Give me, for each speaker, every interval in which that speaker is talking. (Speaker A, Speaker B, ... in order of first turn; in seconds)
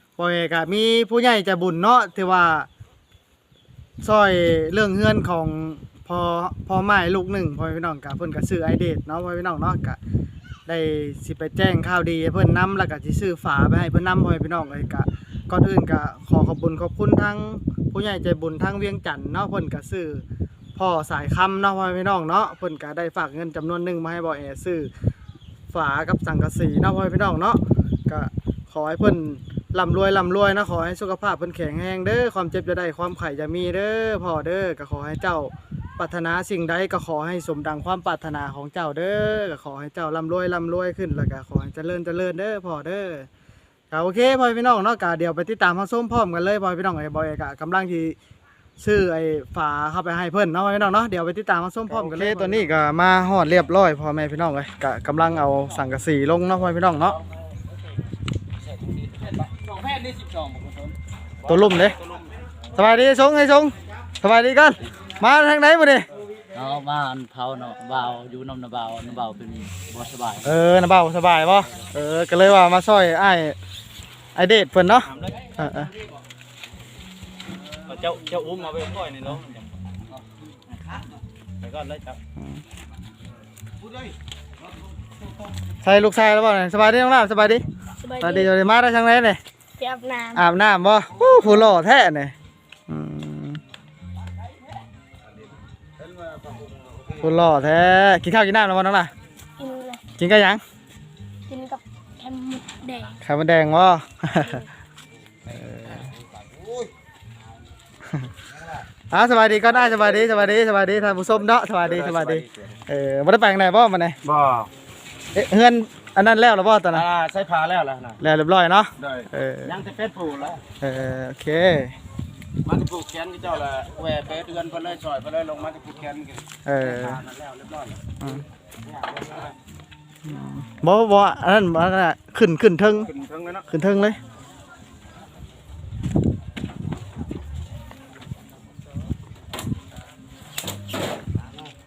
Speaker A: 0.2-2.7, 4.0-10.0, 10.7-20.2, 20.8-24.9, 25.7-43.3, 43.9-48.2, 48.8-57.2, 61.5-62.0, 62.7-66.1, 70.4-73.6, 74.3-75.9, 85.8-87.7, 88.2-89.4, 90.3-92.3, 92.9-93.6, 97.2-99.1, 100.2-100.6, 103.2-104.6, 105.5-106.1, 109.1-114.2, 115.3-117.0, 118.2-119.8, 120.8-122.0, 126.7-127.2, 128.2-128.4, 130.2-133.1, 133.7-134.2
Speaker B: 51.9-52.5, 61.5-62.2, 77.9-79.6, 81.6-82.2, 109.7-110.3, 111.8-112.8, 114.2-114.7, 116.9-118.2, 119.0-120.6, 122.7-128.0, 128.9-129.5, 132.9-133.7
Speaker C: 66.5-70.5
Speaker D: 88.0-88.5, 89.8-90.4, 99.6-100.0, 101.5-103.1